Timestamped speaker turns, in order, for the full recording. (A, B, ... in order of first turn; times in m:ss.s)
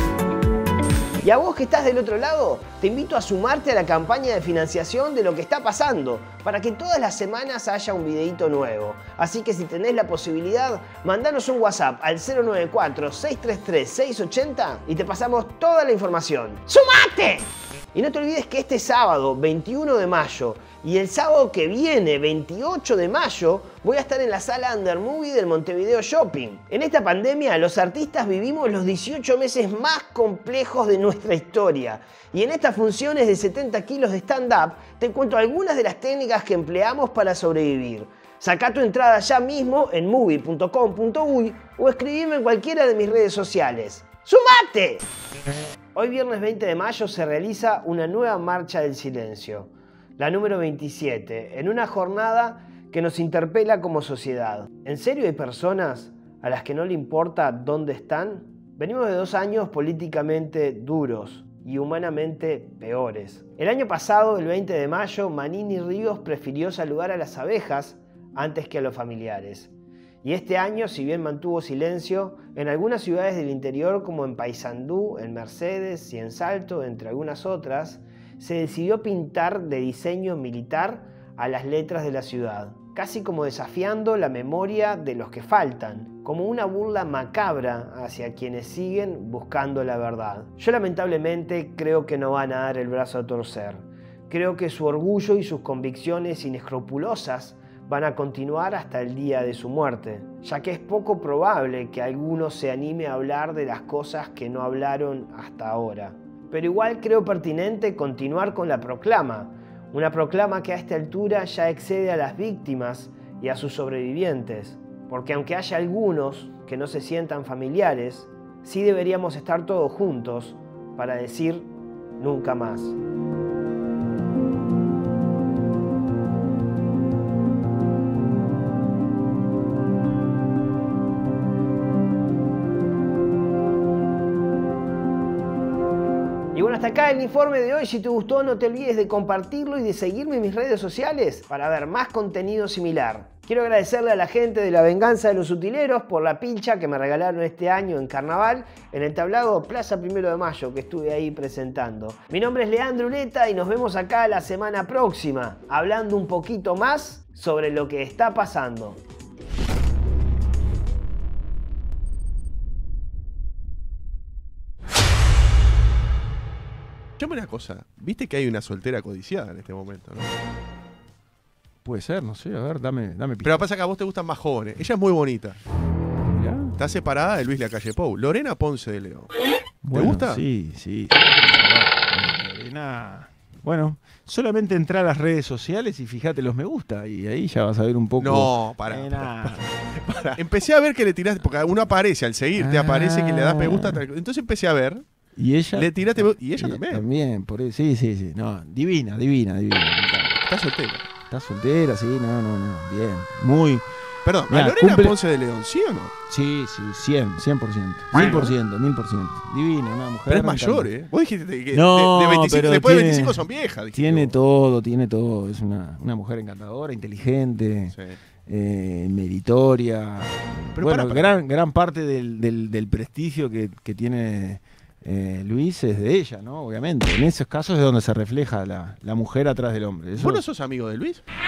0:01.2-0:45.0 A
0:46.0-1:09.7 A
1:10.2-2:03.0 A
2:16.5-2:39.0 A
2:47.2-2:50.3 B
2:51.8-2:53.7 C
2:53.4-2:55.6 B
2:56.3-2:56.8 C
2:56.8-2:59.3 B
2:59.8-3:09.6 C
2:59.9-3:00.4 B
3:08.2-3:15.0 B
3:12.6-3:14.0 C
3:15.4-3:20.5 C
3:15.7-3:17.0 B
3:20.5-3:21.1 B
3:21.3-3:23.8 C
3:24.2-3:26.1 B
3:24.5-3:25.2 C
3:26.3-3:30.9 C
3:28.1-3:28.5 B
3:30.3-3:34.4 B
3:31.7-3:38.0 C
3:37.9-3:38.2 B
3:38.5-3:50.4 C
3:40.8-3:41.4 B
3:50.2-3:51.2 B